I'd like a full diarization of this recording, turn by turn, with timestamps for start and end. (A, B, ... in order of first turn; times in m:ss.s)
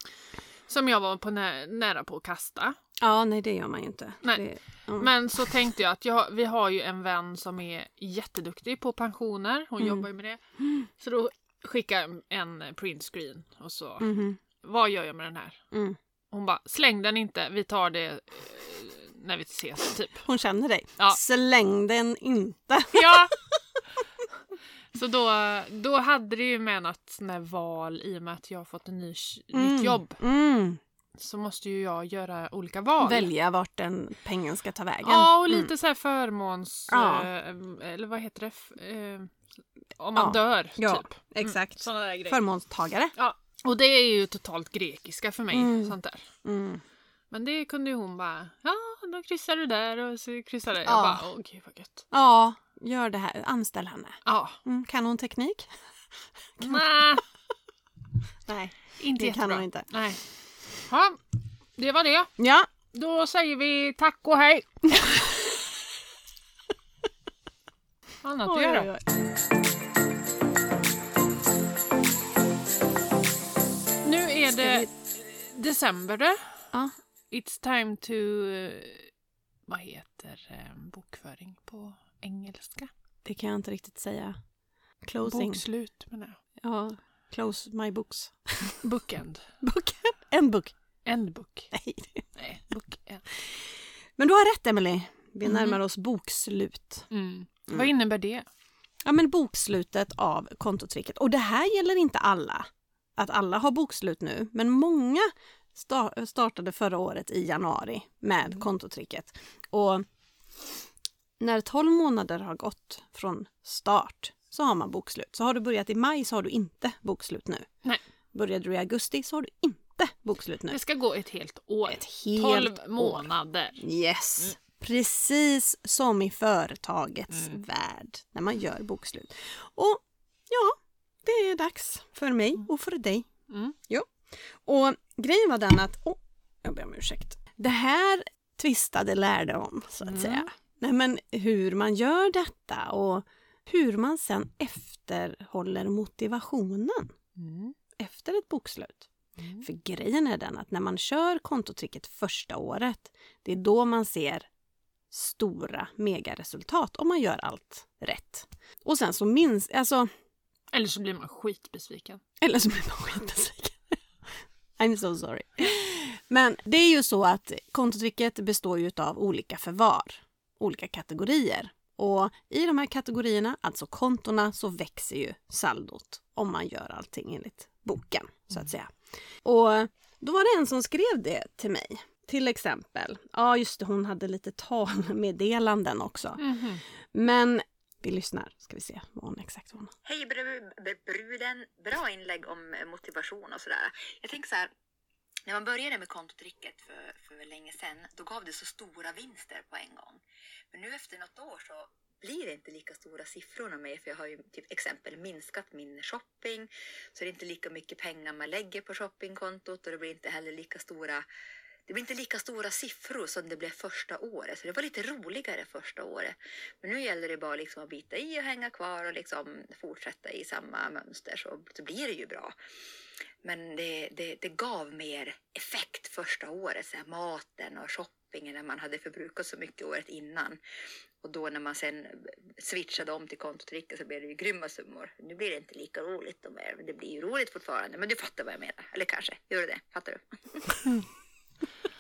0:00.7-0:02.8 A
0:03.0-0:05.1 B
0:04.2-0:10.4 A
0:09.8-0:10.0 B
0:11.0-0:15.6 A
0:14.0-0:14.4 B
0:15.7-0:16.0 B
0:16.3-0:20.2 A
0:20.2-0:23.3 B
0:22.9-0:23.3 A
0:24.9-0:30.2 A
0:29.5-0:30.8 B
0:31.2-0:33.3 A
0:33.0-0:35.7 B
0:35.0-0:39.3 A
0:36.9-0:37.3 B
0:40.0-0:42.4 A
0:40.2-0:43.2 B
0:43.2-0:46.3 A
0:45.5-0:46.8 B
0:47.3-0:52.0 A
0:50.8-0:51.2 B
0:52.1-0:55.7 B
0:54.2-0:54.6 A
0:56.6-0:56.9 B
0:56.6-0:57.2 A
0:58.5-0:59.9 B
0:59.0-1:00.2 A
1:00.9-1:01.2 A
1:01.8-1:02.3 A
1:02.4-1:02.7 B
1:02.9-1:05.2 A
1:08.2-1:08.9 A
1:08.5-1:09.0 B
1:14.0-1:16.5 A
1:14.6-1:14.9 B
1:17.3-1:19.1 A
1:19.7-1:22.9 A
1:23.2-1:24.4 B
1:25.0-1:25.6 B
1:25.2-1:26.4 A
1:26.6-1:28.8 B
1:28.8-1:29.4 A
1:29.6-1:30.7 B
1:31.0-1:31.7 A
1:31.7-1:32.3 B
1:32.4-1:33.2 A
1:34.2-1:37.1 B
1:35.4-1:35.8 A
1:37.1-1:38.4 A
1:39.0-1:50.0 B
1:51.4-1:57.7 B
1:58.3-2:00.8 B
2:00.7-2:03.8 A
2:01.9-2:13.3 B
2:13.5-2:13.8 A
2:14.6-2:27.1 B
2:20.0-2:20.5 A
2:27.4-2:27.8 A
2:28.0-2:34.5 B
2:29.4-2:29.6 A
2:35.1-2:40.1 B
2:40.7-2:42.2 A
2:42.4-2:44.0 B
2:44.8-2:58.9 B
2:59.4-3:06.4 B
3:06.4-3:06.8 A
3:07.1-3:09.9 B
3:10.0-3:14.7 C
3:15.5-3:20.2 C
3:20.7-3:31.2 C
3:31.9-3:42.5 C
3:43.4-3:50.6 C
3:51.2-4:00.2 C